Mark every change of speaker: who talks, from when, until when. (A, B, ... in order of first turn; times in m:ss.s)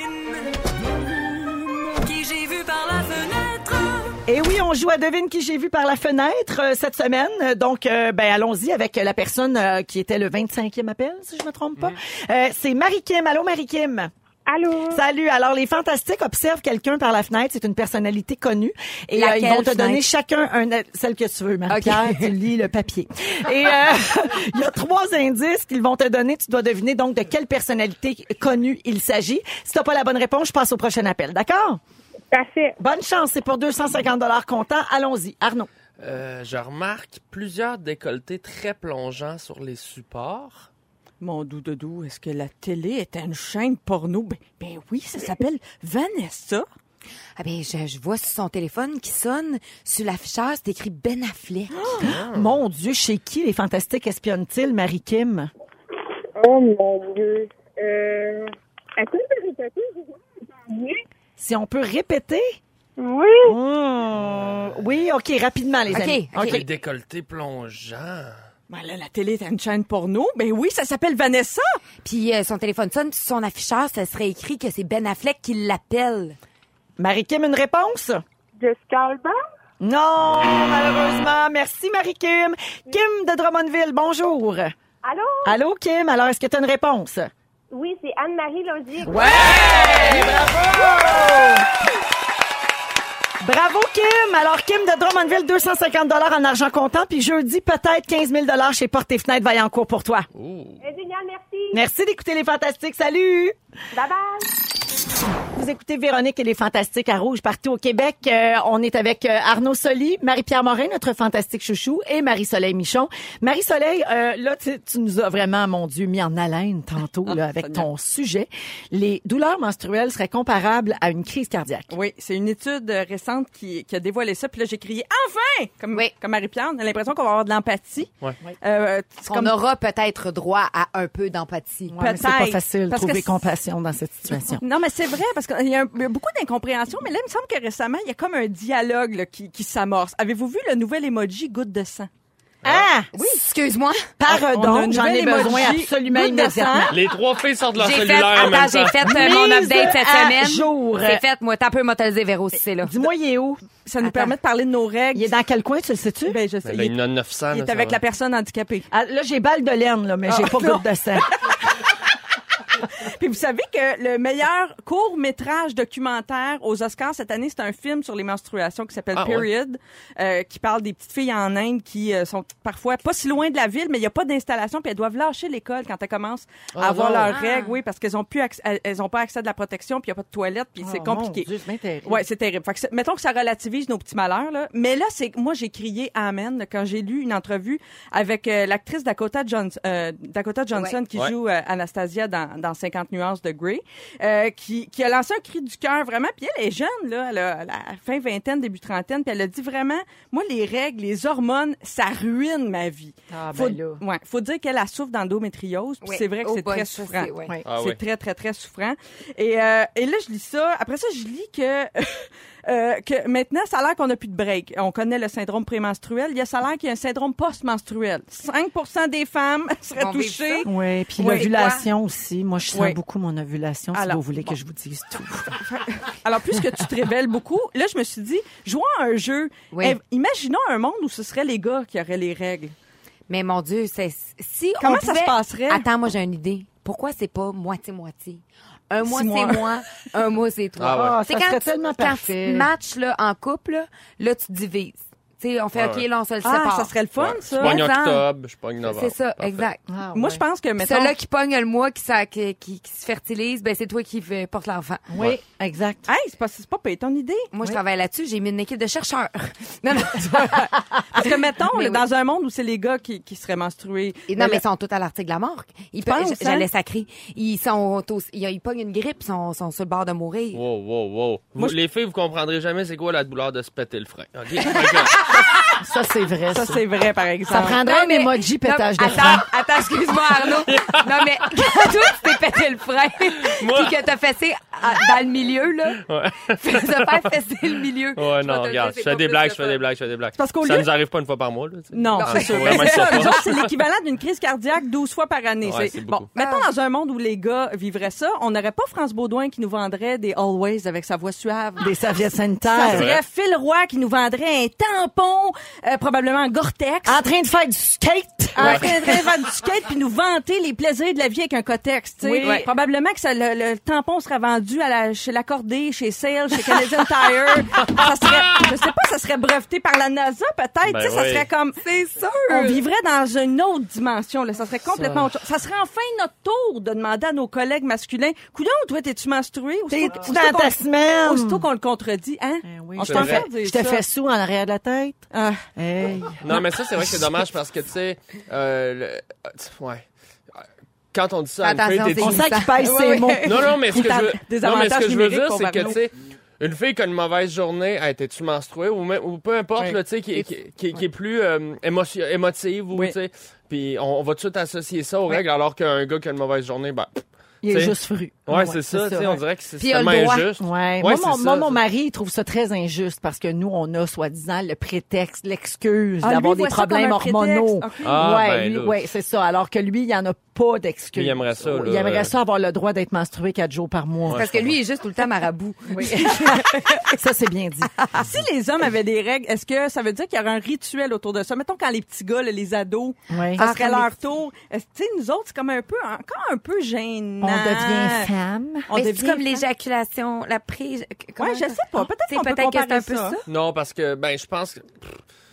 0:04.3-0:14.1 A
0:14.5-0:15.0 B
0:14.9-0:31.8 A
0:19.1-0:20.0 C
0:21.7-0:22.3 C
0:32.3-0:32.8 B
0:32.8-0:35.7 A
0:36.0-0:40.7 D
0:41.2-0:46.6 E
0:47.4-0:51.9 C
0:51.8-0:52.1 E
0:52.0-0:55.5 A
0:52.0-0:52.6 D
0:56.4-1:01.0 B
1:01.4-1:02.6 A
1:03.0-1:03.6 B
1:03.5-1:06.6 A
1:04.2-1:04.7 D
1:05.9-1:06.6 C
1:06.4-1:08.4 D
1:08.7-1:11.8 E
1:12.0-1:16.4 C
1:17.0-1:18.2 A
1:18.6-1:19.4 B
1:19.8-1:24.7 A
1:25.0-1:25.6 B
1:25.4-1:27.3 A
1:27.7-1:31.0 B
1:29.0-1:31.7 A
1:33.4-1:40.3 A
1:40.3-1:40.8 D
1:40.8-1:41.8 B
1:41.7-1:43.6 A
1:43.9-1:44.5 B
1:45.5-2:01.9 A
1:57.3-1:57.9 E
2:01.9-2:09.6 E
2:09.2-2:12.0 C
2:11.9-2:14.6 A
2:12.0-2:13.4 E
2:14.6-2:22.1 E
2:22.6-2:22.9 D
2:22.6-2:23.1 A
2:23.1-2:24.1 C
2:24.2-2:27.0 A
2:24.3-2:27.0 E
2:26.9-2:29.0 D
2:27.8-2:33.0 C
2:29.0-2:31.2 A
2:32.8-2:33.6 A
2:33.8-2:35.3 E
2:34.0-2:34.3 C
2:35.1-2:36.4 A
2:36.3-2:37.0 E
2:36.6-2:38.0 D
2:37.5-2:38.9 E
2:38.9-2:41.4 A
2:40.3-2:41.6 E
2:42.8-3:01.5 E
2:49.1-2:49.5 D
2:56.8-2:57.4 D
2:57.3-2:57.8 C
3:00.8-3:02.3 A
3:02.1-3:40.7 E
3:10.7-3:11.0 C
3:23.3-3:24.0 A
3:26.0-3:27.5 C
3:27.7-3:28.0 D
3:40.0-3:41.9 C
3:40.6-3:45.6 A
3:42.7-3:43.0 E
3:43.9-3:44.5 E
3:45.6-3:52.7 E
3:49.7-3:50.0 C
3:53.3-4:06.9 C
3:54.8-3:55.9 E
3:59.0-3:59.7 E
4:00.8-4:01.2 D
4:00.9-4:02.7 A
4:05.8-4:06.0 D
4:06.4-4:07.9 E
4:07.2-4:09.7 D
4:07.6-4:08.2 C
4:08.8-4:09.8 C
4:09.9-4:10.4 A
4:10.1-4:11.2 E
4:10.8-4:15.0 C
4:15.1-4:16.1 A
4:16.1-4:17.5 E
4:17.5-4:22.0 C
4:21.1-4:24.6 E
4:24.3-4:30.6 C
4:26.0-4:26.7 E
4:30.5-4:35.4 D
4:35.2-4:35.5 C
4:35.8-4:36.8 A
4:36.5-4:37.8 E
4:37.5-4:39.5 A
4:37.7-4:49.8 C
4:40.7-4:41.5 D
4:43.4-4:44.0 D
4:46.0-4:47.3 D
4:48.2-4:53.7 D
4:50.4-4:50.9 E
4:51.9-5:01.9 E
4:52.2-4:53.4 C
4:55.6-4:56.3 D
4:56.4-4:56.7 C
5:01.8-5:03.1 A
5:02.7-5:07.2 E
5:02.9-5:03.2 D
5:07.1-5:09.2 A
5:08.6-5:21.8 E
5:08.6-5:08.9 D
5:12.2-5:12.7 A
5:12.4-5:12.7 C
5:20.8-5:21.5 D
5:21.8-5:22.8 C
5:22.5-5:34.0 E
5:29.9-5:31.7 A
5:32.6-5:37.1 A
5:33.0-5:33.5 D
5:35.3-5:35.6 E
5:36.4-5:40.0 D
5:41.1-5:42.5 D
5:41.6-5:43.7 C
5:42.2-5:44.3 A
5:43.4-6:01.8 D
5:43.9-5:46.0 E
5:50.4-5:51.0 C
5:57.6-5:59.4 A
5:59.8-6:00.5 C
6:00.6-6:14.4 A
6:06.2-6:08.2 E
6:08.0-6:09.0 D
6:11.2-6:12.3 D
6:14.3-6:14.8 D
6:14.3-6:17.1 C
6:15.9-6:18.0 A
6:18.1-6:28.3 E
6:23.3-6:23.6 A
6:23.6-6:24.2 C
6:27.4-6:28.9 A
6:28.9-6:29.6 E
6:28.9-6:33.5 C
6:31.4-6:33.4 E
6:33.5-6:35.2 D